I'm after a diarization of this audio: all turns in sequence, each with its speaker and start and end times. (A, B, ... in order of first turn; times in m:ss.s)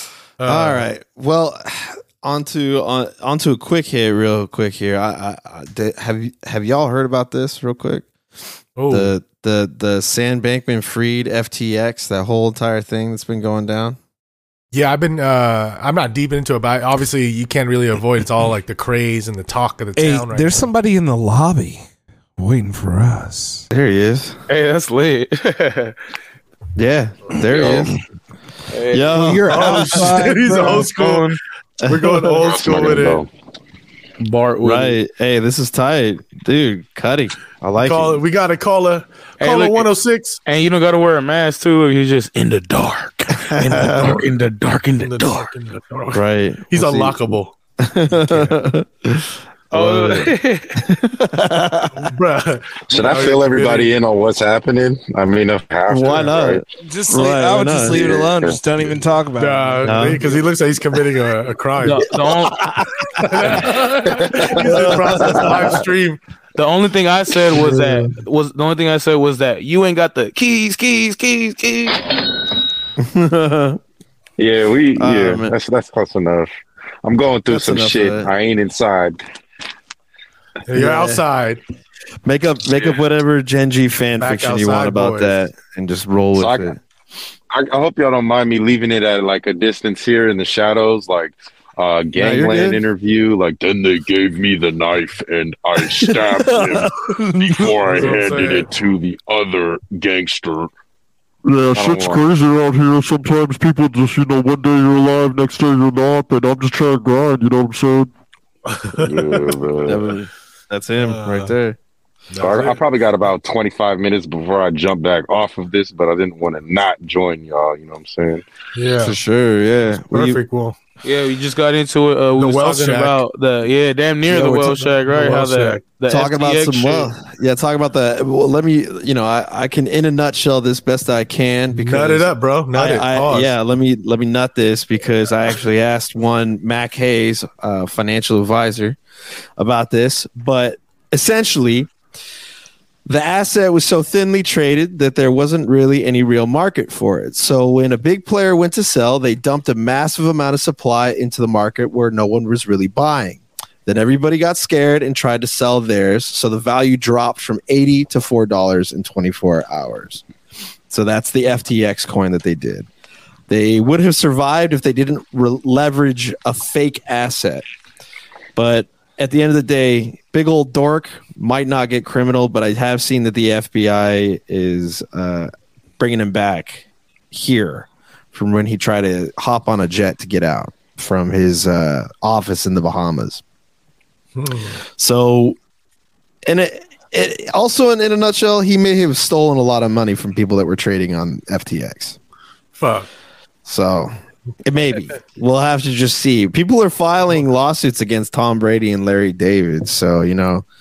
0:00.4-0:00.9 A
0:00.4-0:08.1 B
0:08.8-0:09.1 A
0:08.9-0:14.0 B
0:14.7-0:20.7 A
0:20.0-0:21.8 C
0:22.4-0:23.7 C
0:23.7-0:24.4 B
0:24.5-0:26.0 D
0:26.8-0:27.9 B
0:27.5-0:27.8 D
0:28.7-0:29.3 D
0:28.9-0:30.2 B
0:29.1-0:30.9 C
0:29.5-0:33.2 A
0:30.7-0:31.4 D
0:31.8-0:32.2 B
0:32.4-0:33.3 E
0:34.2-0:35.0 D
0:34.6-0:38.2 B
0:37.8-0:40.4 A
0:39.4-0:39.9 D
0:40.4-0:45.5 D
0:43.5-0:44.2 B
0:44.0-0:44.2 A
0:45.0-0:47.5 A
0:46.1-0:47.3 B
0:47.8-0:52.1 B
0:48.3-0:48.6 A
0:49.7-0:50.9 D
0:52.0-0:54.0 A
0:52.9-0:56.6 E
0:55.9-0:58.2 B
0:56.8-1:00.1 C
0:57.9-0:58.6 E
0:59.4-1:02.1 A
0:59.8-1:00.3 B
1:01.8-1:02.6 D
1:02.2-1:03.7 B
1:03.2-1:06.2 A
1:04.3-1:05.7 B
1:06.6-1:12.0 D
1:13.0-1:13.8 B
1:14.4-1:16.5 E
1:15.0-1:15.5 B
1:17.0-1:19.2 E
1:17.5-1:18.3 B
1:20.7-1:21.6 A
1:20.7-1:21.2 B
1:22.2-1:26.8 B
1:24.2-1:25.4 A
1:26.4-1:26.8 E
1:27.5-1:40.7 E
1:32.2-1:32.8 B
1:35.8-1:37.5 B
1:37.8-1:38.7 A
1:41.5-1:48.1 F
1:41.7-1:42.2 E
1:49.0-1:50.1 E
1:49.8-1:51.8 B
1:51.0-1:51.5 A
1:52.3-1:52.8 A
1:52.4-1:58.4 E
1:58.8-1:59.2 A
1:59.0-2:00.4 B
1:59.9-2:00.8 A
2:01.0-2:07.1 D
2:02.4-2:03.2 A
2:04.3-2:05.8 A
2:06.1-2:19.0 B
2:11.7-2:13.5 A
2:19.6-2:21.9 B
2:23.1-2:40.2 B
2:40.9-2:42.9 B
2:43.5-2:47.6 B
2:48.6-3:03.4 B
3:04.4-3:04.8 A
3:05.0-3:05.6 B
3:06.5-3:12.2 B
3:12.8-3:13.1 A
3:13.6-3:20.6 B